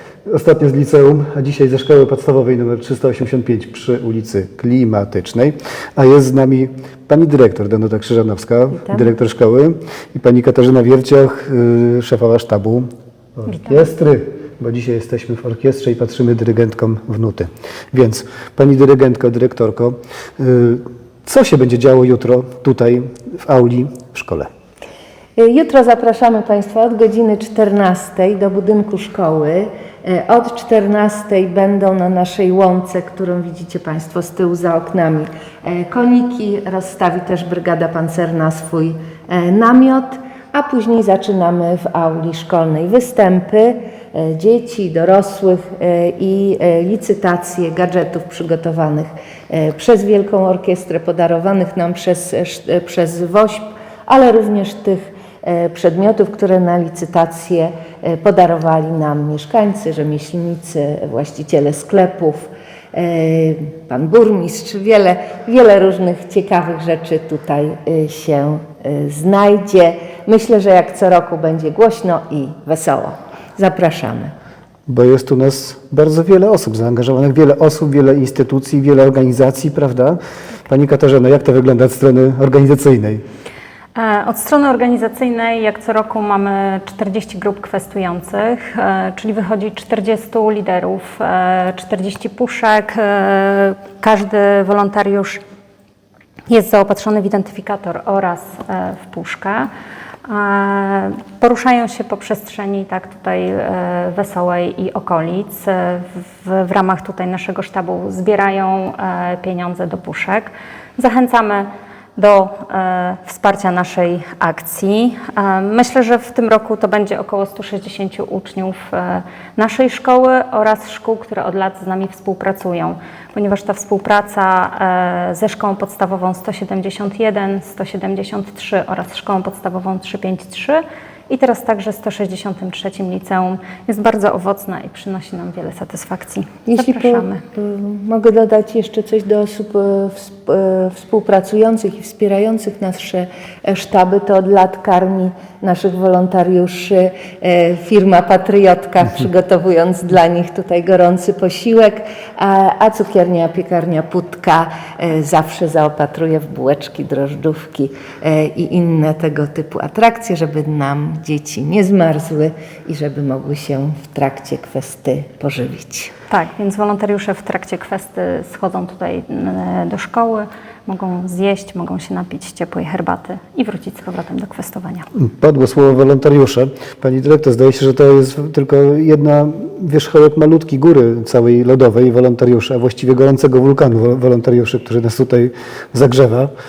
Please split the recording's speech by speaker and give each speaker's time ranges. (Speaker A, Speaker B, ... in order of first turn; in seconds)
Speaker A: 0.2-24.5, 74.9-83.2, 175.2-186.5
Speaker B: 13.5-13.8, 83.9-95.4, 96.5-99.7, 100.2-137.4, 166.3-175.1
Speaker C: 25.4-74.3, 136.7-166.1